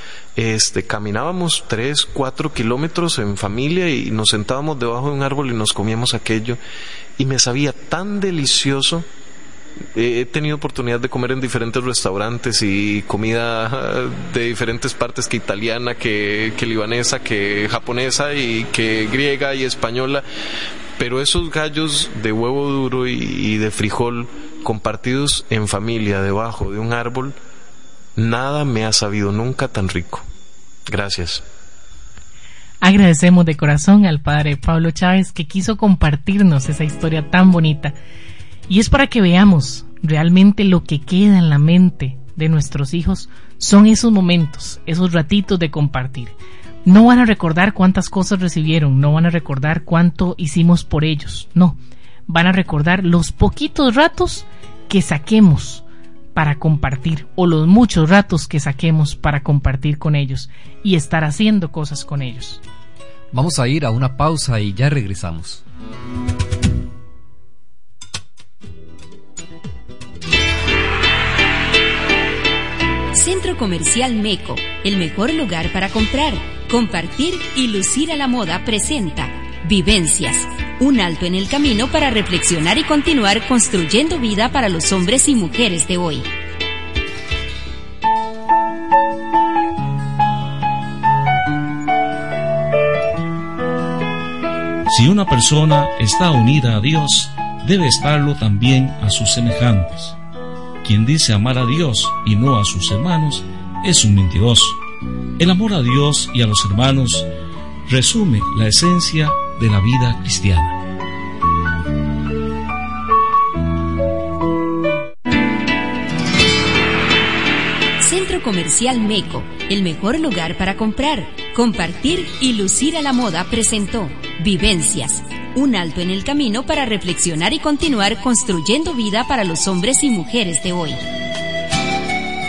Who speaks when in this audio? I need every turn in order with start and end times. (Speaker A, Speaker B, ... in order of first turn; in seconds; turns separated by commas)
Speaker A: 0.3-6.6, Speaker A: 7.2-9.1, Speaker A: 9.9-20.2, Speaker A: 21.0-27.4, Speaker A: 28.2-30.2, Speaker A: 30.9-31.4, Speaker B: 32.8-37.9, Speaker B: 38.7-55.8, Speaker B: 56.3-62.6, Speaker C: 63.3-65.6, Speaker D: 73.1-86.3, Speaker E: 94.9-100.2, Speaker E: 100.8-104.8, Speaker E: 105.4-107.3, Speaker E: 107.9-110.8, Speaker D: 118.0-131.0